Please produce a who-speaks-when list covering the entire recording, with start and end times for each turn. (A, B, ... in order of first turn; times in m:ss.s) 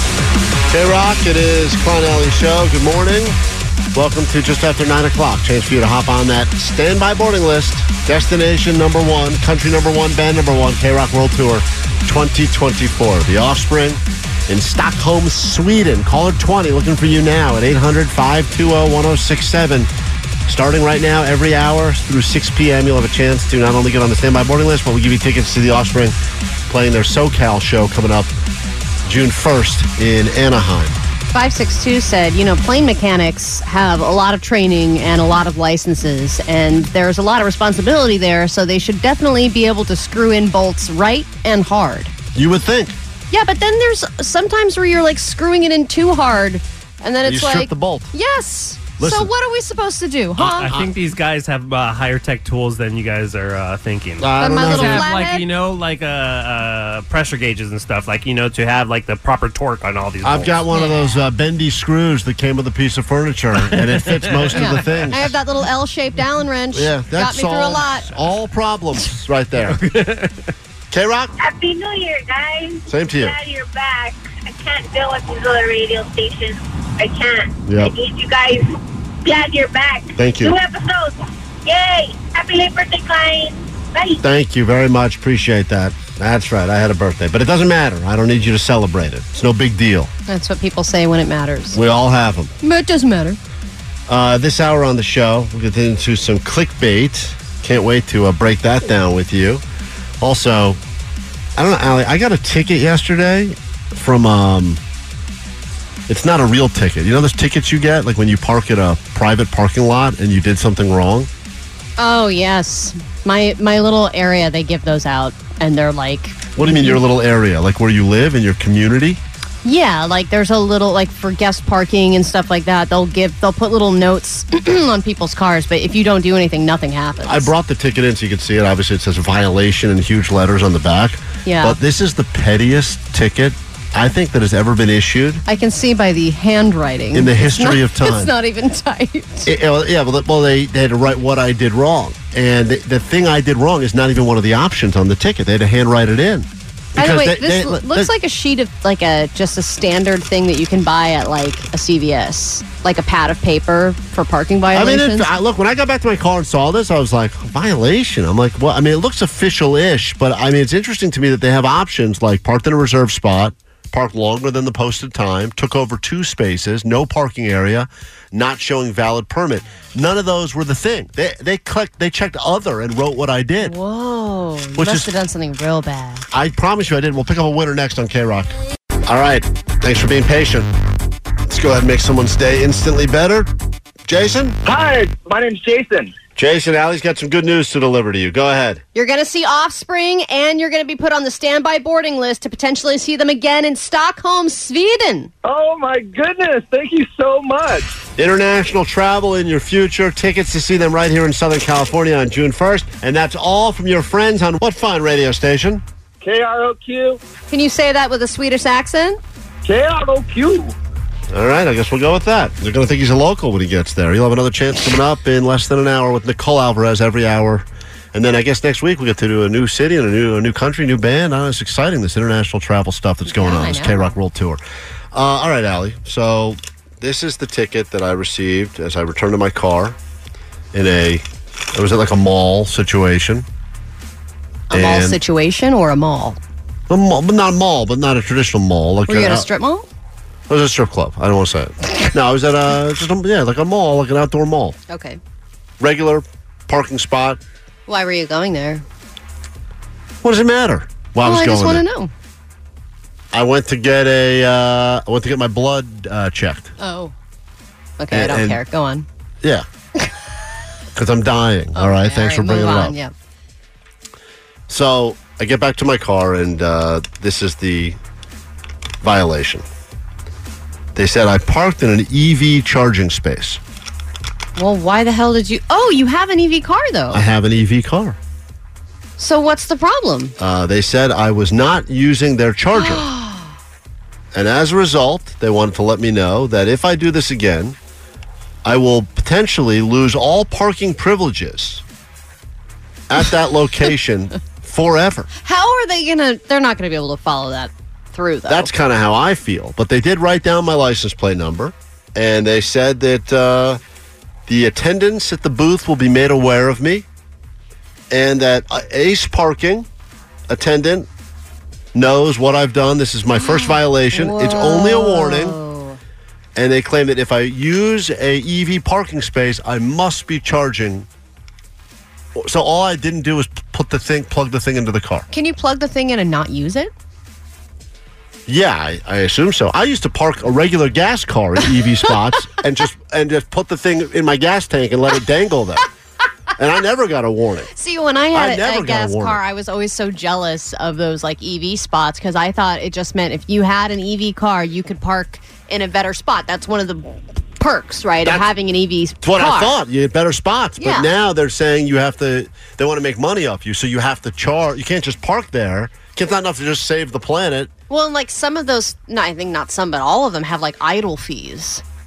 0:00.7-0:03.4 A
0:03.9-0:19.9 A
0:20.5-0:26.2 A
0:26.7-0:28.3 A
0:29.0-0:31.0 A
0:31.3-0:42.1 B
0:42.4-0:43.0 A
0:43.3-0:50.7 B
0:47.2-0:48.1 A
0:49.0-0:49.3 A
0:50.4-0:50.9 A
0:50.4-1:00.6 C
0:54.2-0:55.1 A
0:54.4-0:55.4 B
1:00.2-1:05.3 A
1:00.7-1:01.2 B
1:03.7-1:05.0 C
1:04.5-1:08.1 B
1:06.7-1:09.8 A
1:09.6-1:10.5 C
1:10.9-1:11.3 A
1:11.4-1:18.7 D
1:12.9-1:13.4 A
1:17.7-1:17.9 A
1:19.2-1:24.2 D
1:20.2-1:20.6 A
1:24.2-1:30.1 A
1:30.3-1:31.8 B
1:31.7-1:32.5 A
1:32.6-1:33.4 B
1:34.1-1:39.6 A
1:40.2-1:40.8 A
1:41.6-1:44.8 A
1:46.1-1:51.3 A
1:52.0-1:57.0 B
1:56.6-1:59.2 A
1:59.6-2:07.5 B
2:07.2-2:15.4 A
2:11.4-2:11.8 B
2:15.5-2:19.5 B
2:17.1-2:18.3 A
2:19.5-2:28.1 A
2:27.0-2:35.3 B
2:34.7-2:53.8 A
2:53.6-2:56.3 B
2:54.8-2:55.1 A
2:56.3-3:00.7 A
3:01.5-3:03.5 A
3:04.1-3:04.6 A
3:04.6-3:06.1 E
3:06.4-3:08.8 A
3:09.0-3:15.3 B
3:15.4-3:17.9 E
3:18.2-3:25.8 A
3:26.2-3:27.2 E
3:27.5-3:29.2 B
3:29.6-3:30.8 E
3:31.3-3:44.6 A
3:43.3-3:44.1 B
3:45.1-3:50.0 A
3:50.7-3:53.5 A
3:54.7-3:56.4 B
3:54.7-3:55.2 A
3:56.9-3:59.5 A
3:59.1-3:59.9 B
4:00.5-4:04.8 A
4:04.9-4:05.2 B
4:05.8-4:07.4 A
4:07.9-4:08.8 B
4:10.2-4:11.8 A
4:11.2-4:12.1 B
4:13.3-4:16.7 A
4:16.8-4:17.1 B
4:18.0-4:19.1 B
4:18.1-4:18.6 A
4:20.9-4:23.0 A
4:21.8-4:23.1 B
4:24.7-4:28.0 A
4:29.0-4:29.6 A
4:31.0-4:33.6 A
4:34.6-4:37.2 B
4:37.1-4:38.2 A
4:39.2-4:40.4 B
4:40.4-4:43.1 A
4:42.7-4:43.5 B
4:44.3-4:47.8 A
4:48.6-4:51.8 A
4:53.1-4:55.3 A
4:55.4-4:58.7 B
4:58.5-5:03.8 A
5:04.5-5:07.1 A
5:08.1-5:09.9 A
5:10.5-5:11.1 A
5:11.9-5:15.6 A
5:13.4-5:16.0 B
5:16.6-5:21.1 A
5:22.4-5:25.3 A
5:25.3-5:26.9 B
5:28.5-5:35.9 A
5:36.6-5:37.7 A
5:37.7-5:49.8 B
5:38.3-5:39.4 A
5:49.2-5:57.7 A
5:50.8-5:51.1 B
5:57.9-6:01.8 B